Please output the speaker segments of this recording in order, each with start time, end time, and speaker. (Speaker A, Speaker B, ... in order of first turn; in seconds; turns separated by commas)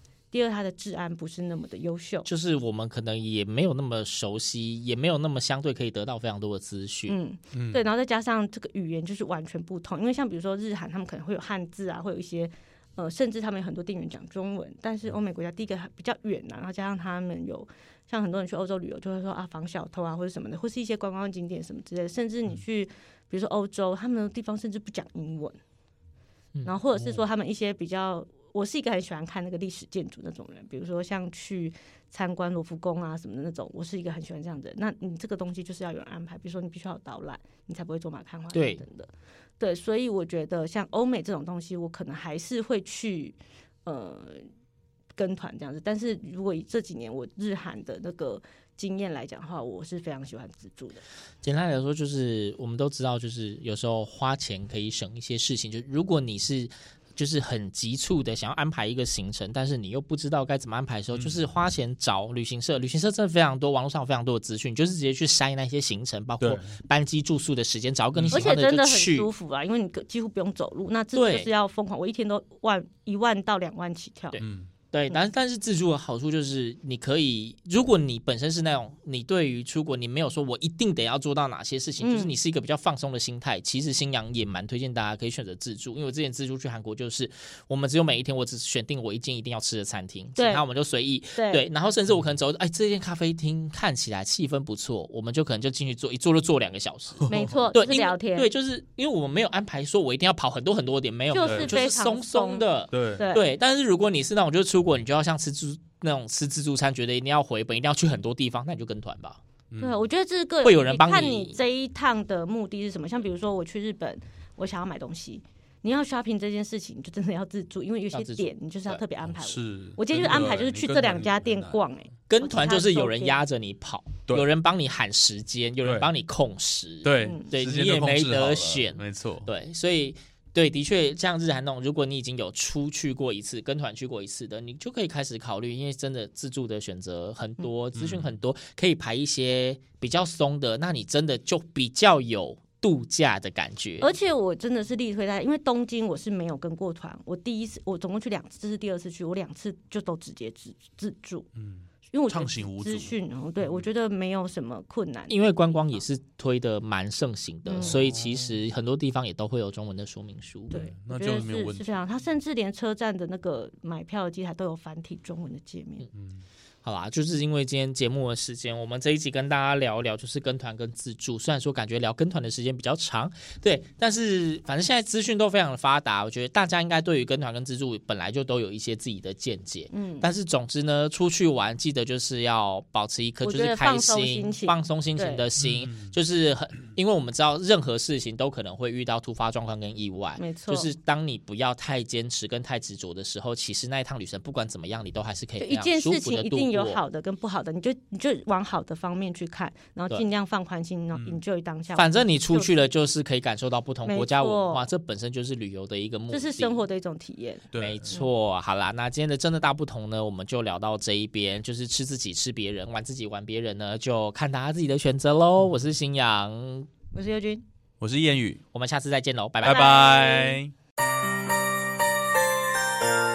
Speaker A: 0.3-2.3, Speaker B: 2.2-7.2, Speaker A: 7.1-25.6, Speaker C: 7.5-7.8, Speaker A: 26.6-44.5, Speaker C: 26.9-27.2, Speaker B: 38.5-38.8, Speaker A: 45.2-51.0, Speaker B: 51.4-69.3, Speaker C: 61.1-61.4, Speaker C: 66.4-66.7, Speaker C: 68.2-68.5, Speaker A: 68.3-74.4, Speaker B: 71.1-71.5, Speaker B: 74.3-109.4, Speaker C: 74.4-74.7, Speaker A: 82.0-82.3, Speaker A: 90.4-90.7, Speaker A: 91.3-91.7, Speaker C: 97.3-97.6, Speaker A: 97.3-98.5, Speaker A: 101.3-103.5, Speaker C: 101.4-101.9, Speaker C: 102.9-103.3, Speaker C: 109.7-110.0, Speaker A: 109.8-123.4, Speaker B: 110.6-111.6, Speaker B: 118.1-119.0, Speaker C: 119.3-121.8, Speaker B: 122.3-144.1, Speaker C: 125.8-126.1, Speaker C: 127.0-129.5, Speaker A: 127.2-127.5, Speaker C: 137.9-138.3, Speaker A: 144.0-151.5, Speaker C: 151.6-153.8, Speaker A: 152.1-156.1, Speaker B: 155.3-160.9, Speaker A: 157.7-158.0, Speaker C: 157.8-158.6, Speaker A: 160.7-166.1, Speaker C: 160.7-162.0, Speaker C: 166.2-166.4, Speaker B: 166.8-197.0, Speaker A: 179.9-180.3, Speaker A: 183.4-185.4, Speaker C: 185.6-186.2, Speaker A: 190.4-190.9, Speaker A: 195.6-202.9, Speaker C: 201.1-201.4, Speaker B: 201.9-206.9, Speaker A: 204.1-204.9, Speaker A: 206.3-208.3, Speaker C: 207.7-208.1, Speaker B: 207.8-216.9, Speaker A: 217.1-217.6, Speaker C: 218.0-218.6, Speaker B: 218.7-220.2, Speaker C: 219.6-220.7